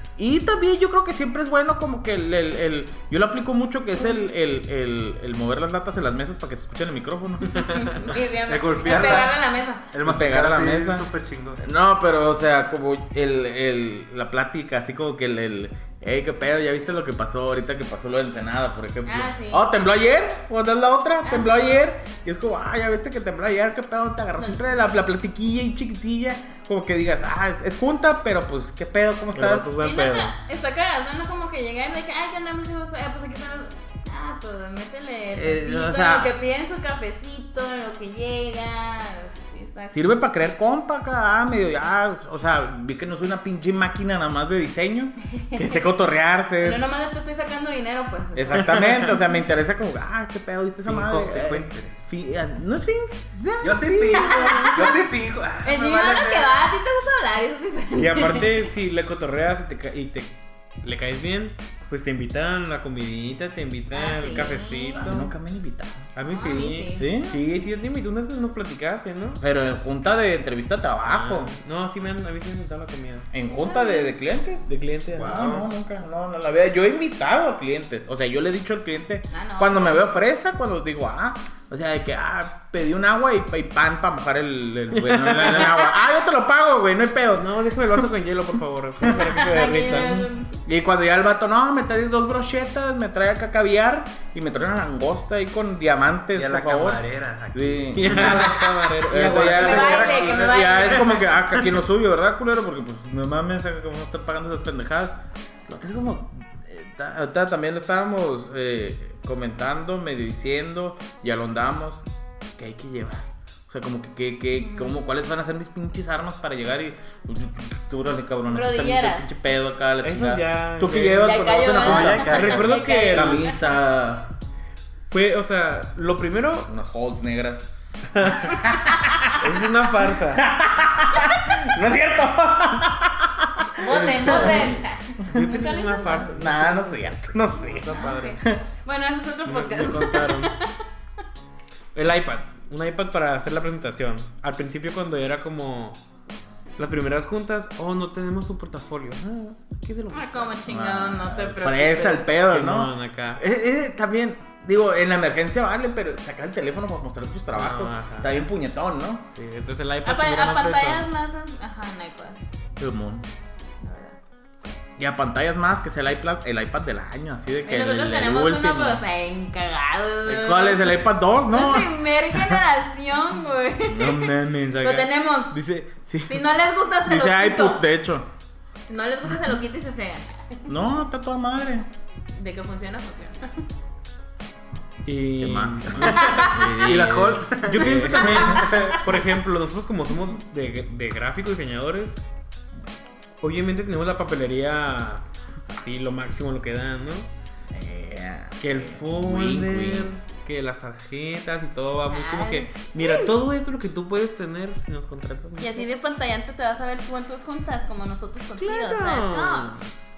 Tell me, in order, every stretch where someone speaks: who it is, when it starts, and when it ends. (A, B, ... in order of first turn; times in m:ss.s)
0:00.2-0:07.8 A
0:07.4-0:09.8 B
0:08.5-0:09.4 C
0:08.9-0:09.2 A
0:09.9-0:11.6 C
0:10.0-0:11.1 A
0:11.6-0:29.7 A
0:19.0-0:19.6 B
0:21.2-0:21.6 B
0:24.4-0:24.6 B
0:29.3-0:30.4 D
0:29.8-0:40.0 B
0:35.3-0:36.3 A
0:39.9-0:46.8 A
0:45.3-0:45.8 B
0:46.6-0:49.2 B
0:48.4-0:54.9 A
0:50.9-0:52.0 C
0:53.6-0:56.7 C
0:54.1-0:55.0 B
0:55.6-0:58.6 B
0:57.9-1:05.3 D
1:03.9-1:05.1 B
1:05.0-1:06.1 A
1:06.2-1:09.4 D
1:06.3-1:07.1 B
1:07.0-1:07.4 A
1:09.4-1:11.5 A
1:11.1-1:13.3 D
1:13.3-1:28.1 A
1:13.5-1:14.1 B
1:14.7-1:15.5 D
1:15.1-1:15.7 C
1:19.3-1:20.2 B
1:24.9-1:25.9 D
1:27.4-1:30.3 D
1:29.0-1:30.1 A
1:29.3-1:30.6 B
1:30.7-1:52.1 A
1:36.3-1:38.6 C
1:37.9-1:40.3 D
1:39.2-1:41.7 C
1:39.5-1:41.3 B
1:52.6-2:04.3 A
1:54.6-1:55.0 B
1:58.5-1:59.3 B
2:00.0-2:03.5 D
2:01.2-2:03.6 B
2:01.8-2:02.8 C
2:05.1-2:06.7 D
2:06.7-2:07.7 A
2:08.1-2:08.6 D
2:08.2-2:09.6 A
2:09.3-2:10.4 D
2:10.3-2:15.5 A
2:13.8-2:16.5 B
2:14.1-2:18.4 D
2:16.3-2:18.6 A
2:17.9-2:20.7 B
2:19.5-2:20.5 D
2:21.9-2:26.0 D
2:26.8-2:30.6 D
2:30.1-2:32.2 B
2:30.7-2:39.3 A
2:32.4-2:33.4 D
2:37.5-2:38.3 D
2:39.3-2:41.1 D
2:40.0-2:42.4 B
2:42.8-2:43.2 A
2:43.8-2:44.2 B
2:45.0-2:49.0 A
2:47.6-2:55.6 B
2:50.3-2:52.6 A
2:53.9-2:56.5 A
2:56.3-2:57.8 B
2:57.0-2:58.3 A
2:58.9-3:00.3 B
3:00.7-3:01.9 A
3:02.4-3:03.5 B
3:05.0-3:12.2 D
3:05.4-3:08.9 A
3:06.0-3:06.8 B
3:06.8-3:09.0 C
3:07.9-3:09.0 B
3:13.4-3:15.2 D
3:15.8-3:17.3 D
3:17.7-3:20.1 A
3:18.6-3:25.9 D
3:22.1-3:23.3 B
3:25.6-3:29.9 B
3:28.6-3:29.9 D